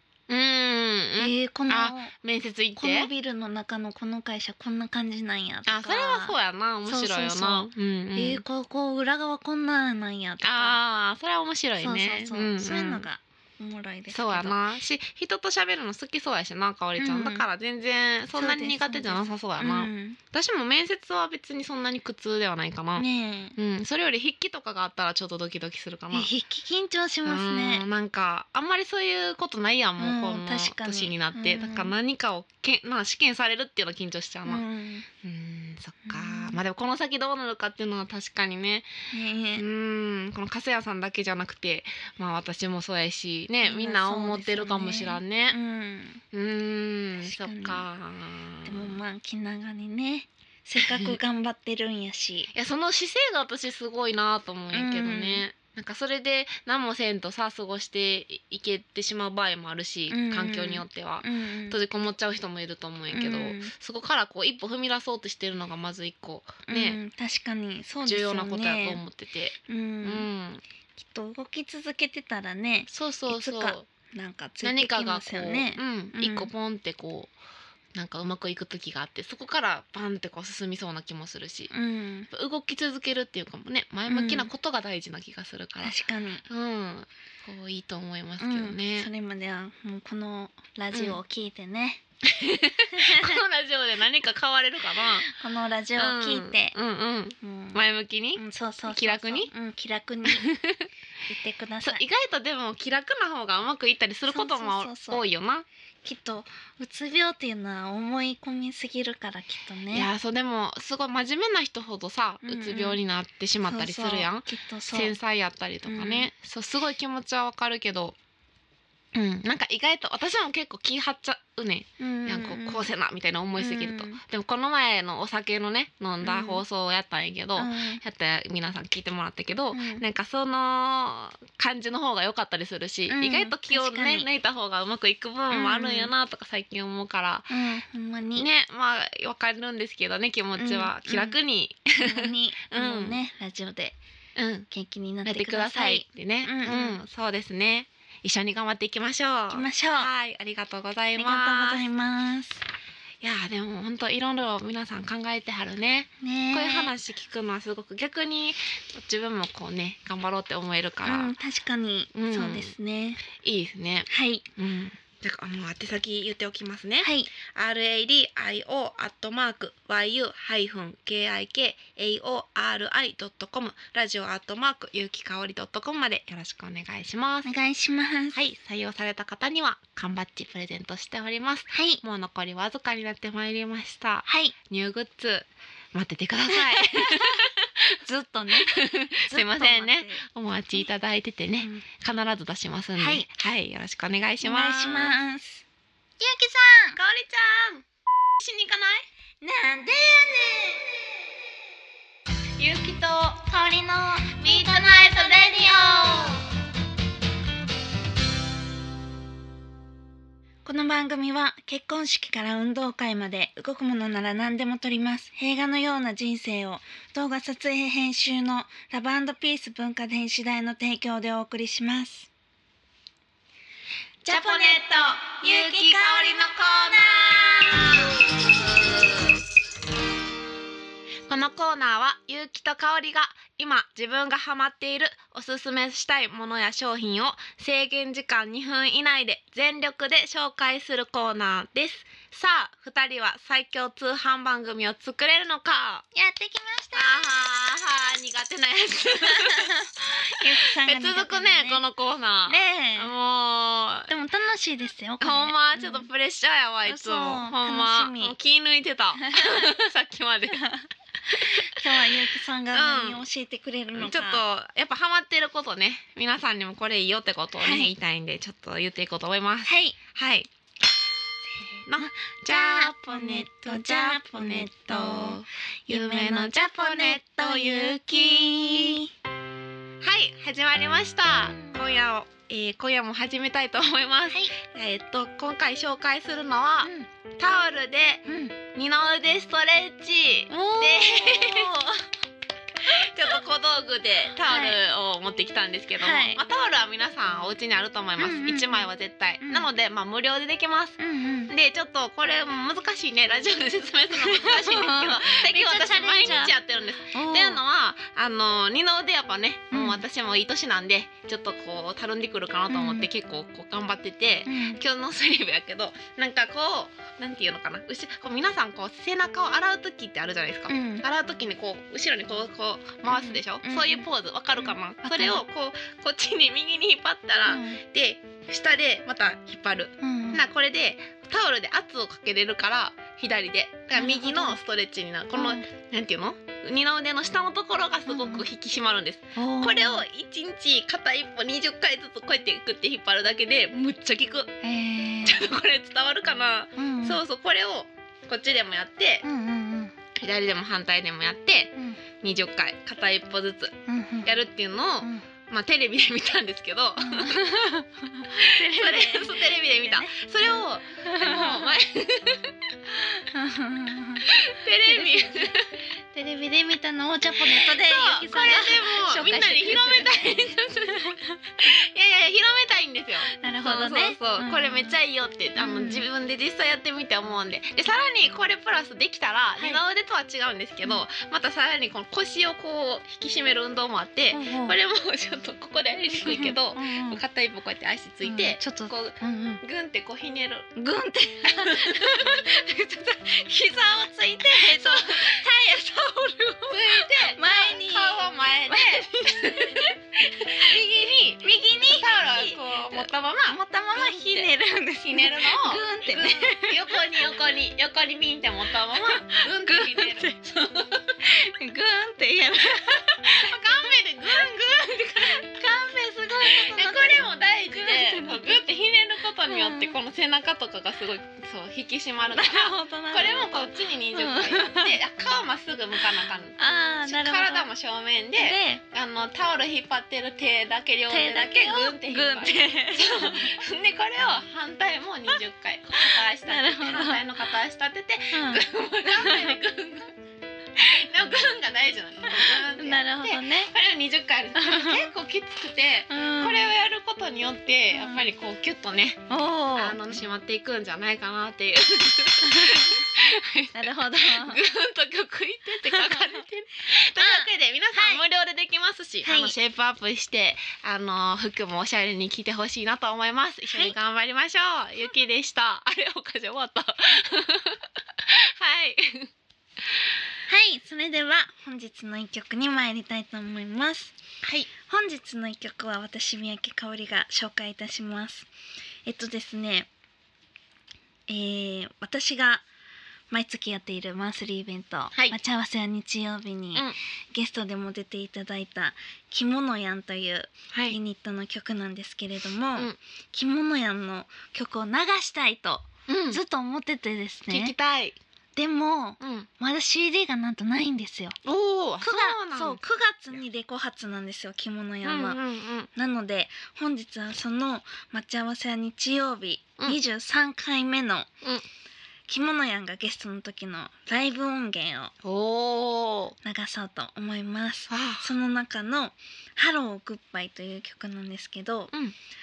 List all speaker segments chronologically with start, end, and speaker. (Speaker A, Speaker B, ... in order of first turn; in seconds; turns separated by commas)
Speaker A: 0.3-3.1, Speaker B: 1.2-2.1, Speaker B: 2.8-10.8, Speaker A: 5.7-8.4, Speaker A: 10.4-13.1, Speaker B: 11.8-14.6, Speaker A: 14.1-26.3, Speaker B: 17.0-17.5, Speaker B: 18.3-20.2, Speaker B: 23.0-23.6, Speaker B: 26.1-27.9, Speaker A: 27.2-34.6, Speaker B: 30.0-31.9, Speaker B: 34.5-35.1, Speaker A: 35.2-38.9, Speaker B: 36.0-36.6, Speaker B: 39.1-39.6, Speaker A: 39.6-45.6, Speaker B: 43.6-46.2, Speaker A: 46.3-49.0, Speaker B: 47.1-47.9, Speaker B: 48.6-52.5, Speaker A: 50.8-51.2, Speaker A: 52.5-67.0, Speaker B: 54.7-55.4, Speaker B: 60.1-61.8, Speaker B: 63.1-63.7, Speaker B: 66.7-69.0, Speaker A: 68.0-70.6, Speaker B: 69.7-70.3, Speaker B: 71.0-76.5, Speaker A: 72.9-73.9, Speaker A: 74.6-77.3, Speaker A: 78.0-81.7, Speaker B: 81.7-82.3, Speaker A: 82.3-86.0, Speaker B: 84.1-84.5, Speaker B: 85.8-86.5, Speaker A: 86.5-89.1, Speaker B: 88.4-92.0, Speaker A: 90.9-91.2, Speaker A: 92.2-95.3, Speaker B: 92.9-93.4, Speaker B: 95.2-96.8, Speaker A: 96.0-99.5, Speaker B: 97.4-100.5, Speaker A: 100.3-100.9, Speaker B: 101.3-102.0, Speaker A: 101.8-105.7, Speaker B: 104.3-105.2, Speaker B: 106.0-110.1, Speaker A: 109.9-118.2, Speaker B: 112.5-113.0, Speaker B: 113.6-115.2, Speaker B: 115.8-116.3, Speaker A: 119.1-137.5, Speaker B: 122.0-122.9, Speaker B: 123.6-124.2, Speaker B: 126.2-126.6, Speaker B: 127.6-128.0, Speaker B: 129.7-130.1, Speaker B: 133.1-134.3, Speaker B: 135.5-136.1, Speaker B: 137.5-138.5, Speaker A: 138.4-143.2, Speaker B: 140.6-141.4, Speaker B: 142.0-144.0, Speaker A: 144.4-144.7, Speaker B: 144.7-147.0, Speaker A: 145.2-151.8, Speaker B: 149.5-150.1, Speaker B: 151.2-152.6, Speaker A: 153.2-161.3, Speaker B: 156.2-156.9, Speaker B: 161.0-163.2, Speaker A: 162.1-162.7, Speaker A: 163.3-177.5, Speaker B: 164.1-164.4, Speaker B: 167.0-167.3, Speaker B: 177.4-178.4, Speaker A: 178.3-188.0, Speaker B: 181.7-182.0, Speaker B: 184.3-184.6, Speaker B: 186.5-190.2, Speaker A: 188.6-195.2, Speaker B: 191.6-191.9, Speaker B: 193.0-193.3, Speaker B: 194.4-195.6, Speaker B: 196.2-197.0, Speaker A: 196.9-197.9, Speaker A: 198.4-199.1, Speaker B: 199.4-201.1, Speaker A: 202.6-203.6, Speaker B: 203.5-206.4, Speaker A: 204.3-206.4, Speaker B: 210.7-222.3, Speaker B: 224.2-226.4, Speaker A: 224.2-229.4, Speaker A: 231.3-246.1, Speaker B: 246.1-247.5, Speaker A: 246.9-254.1, Speaker B: 249.2-251.8, Speaker B: 252.5-253.1, Speaker B: 254.1-256.1, Speaker A: 255.2-260.6, Speaker B: 256.9-258.4, Speaker B: 259.3-259.7, Speaker B: 260.5-264.4, Speaker A: 261.3-263.2, Speaker A: 263.9-270.5, Speaker B: 267.6-267.9, Speaker B: 269.7-270.0, Speaker B: 271.5-279.1, Speaker A: 271.9-279.0, Speaker A: 280.0-291.8, Speaker B: 281.5-281.8, Speaker B: 286.8-287.1, Speaker B: 288.3-288.6, Speaker B: 290.5-292.1, Speaker A: 292.8-301.0, Speaker B: 294.4-294.8, Speaker B: 296.0-296.4, Speaker B: 298.2-298.8, Speaker B: 299.4-299.7, Speaker B: 301.0-301.5, Speaker A: 301.5-344.5, Speaker B: 304.1-306.6, Speaker B: 307.1-307.6, Speaker B: 309.7-310.0, Speaker B: 312.7-313.1, Speaker B: 314.5-314.8, Speaker B: 320.7-321.1, Speaker B: 323.1-324.1, Speaker B: 324.6-325.4, Speaker B: 327.5-327.8, Speaker B: 330.0-330.4, Speaker B: 333.9-334.6, Speaker B: 335.3-335.6, Speaker B: 338.1-338.5, Speaker B: 339.4-340.0, Speaker B: 344.6-345.4, Speaker A: 345.2-349.2, Speaker B: 346.8-347.2, Speaker B: 349.2-349.9, Speaker A: 350.1-357.5, Speaker B: 351.8-352.0, Speaker B: 353.9-354.3, Speaker B: 357.0-360.2, Speaker A: 358.3-362.5, Speaker B: 361.0-361.7, Speaker B: 363.0-371.5, Speaker A: 364.3-365.7, Speaker A: 367.3-390.7, Speaker B: 373.3-375.0, Speaker B: 375.6-376.1, Speaker B: 384.3-384.8, Speaker B: 386.2-387.2, Speaker B: 388.2-389.6, Speaker B: 390.8-400.8, Speaker A: 391.5-392.4, Speaker A: 394.5-395.4, Speaker A: 396.7-411.0, Speaker B: 401.4-407.0, Speaker B: 408.9-410.6, Speaker B: 411.2-413.6, Speaker A: 412.7-415.5, Speaker B: 415.2-418.6, Speaker A: 416.4-440.1, Speaker B: 419.4-420.0, Speaker B: 422.3-425.0, Speaker B: 426.6-427.7, Speaker B: 428.4-428.8, Speaker B: 431.1-433.5, Speaker B: 436.0-437.2, Speaker B: 438.3-439.6, Speaker A: 440.8-449.2, Speaker B: 442.3-443.7, Speaker B: 444.6-445.1, Speaker B: 446.1-446.7, Speaker B: 448.0-448.2, Speaker B: 449.3-450.0, Speaker A: 449.8-469.3, Speaker B: 452.4-453.0, Speaker B: 453.7-454.6, Speaker B: 455.9-456.4, Speaker B: 457.1-458.2, Speaker B: 459.2-459.5, Speaker B: 463.7-463.9, Speaker B: 470.5-474.2, Speaker A: 474.4-474.7, Speaker B: 474.8-478.5, Speaker B: 479.1-479.9, Speaker B: 481.3-482.6, Speaker B: 483.3-497.8, Speaker A: 490.7-491.0, Speaker A: 496.1-496.4, Speaker A: 497.5-498.2, Speaker B: 498.6-501.4, Speaker A: 499.2-499.5, Speaker A: 501.4-502.8, Speaker B: 502.0-505.4, Speaker A: 505.0-505.9, Speaker B: 505.9-511.3, Speaker B: 512.3-515.1, Speaker A: 515.2-516.4, Speaker B: 516.4-521.9, Speaker A: 517.9-518.3